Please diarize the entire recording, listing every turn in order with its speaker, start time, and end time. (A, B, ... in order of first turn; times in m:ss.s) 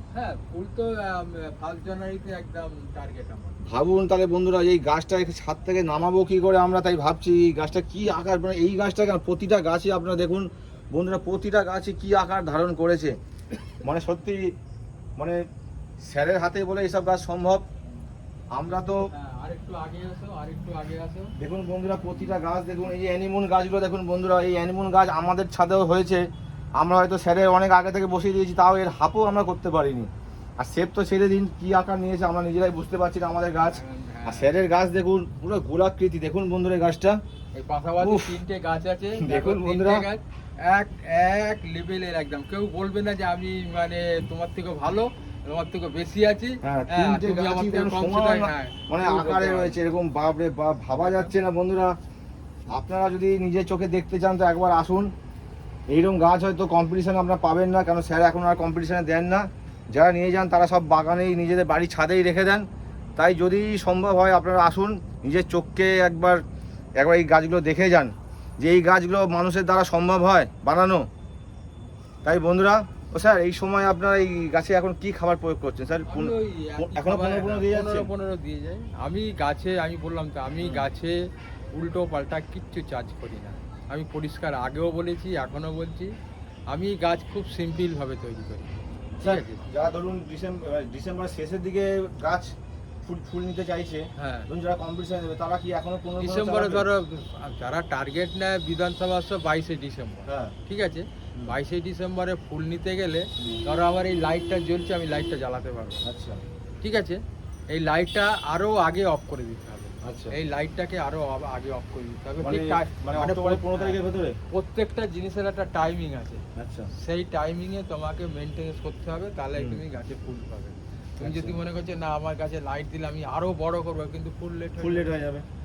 0:00.1-0:03.6 A
0:03.7-0:13.2 B
0:13.8-0:14.6 B
0:15.2-0:15.5 B
0:16.0-0:17.6 B
0:18.5-0:19.1 B
0:18.6-0:21.4 A
0:21.4-0:37.2 B
0:33.7-0:34.5 A
0:37.6-0:49.8 A
0:38.0-0:38.4 B
0:39.2-0:40.1 B
0:46.6-0:52.0 B
0:51.0-0:51.3 A
0:52.7-0:55.1 B
0:55.9-1:06.4 B
1:07.0-1:11.1 B
1:12.2-1:18.1 B
1:16.1-1:26.1 A
1:26.7-1:29.7 A
1:29.2-1:36.9 B
1:34.2-1:34.5 A
1:36.2-1:46.0 A
1:40.3-1:40.6 B
1:46.0-1:46.4 B
1:46.8-1:47.2 A
1:47.7-1:54.0 A
1:50.0-1:50.4 B
1:52.4-1:54.4 B
1:54.5-2:05.1 A
1:56.6-1:56.9 B
2:01.2-2:01.6 B
2:04.8-2:05.4 B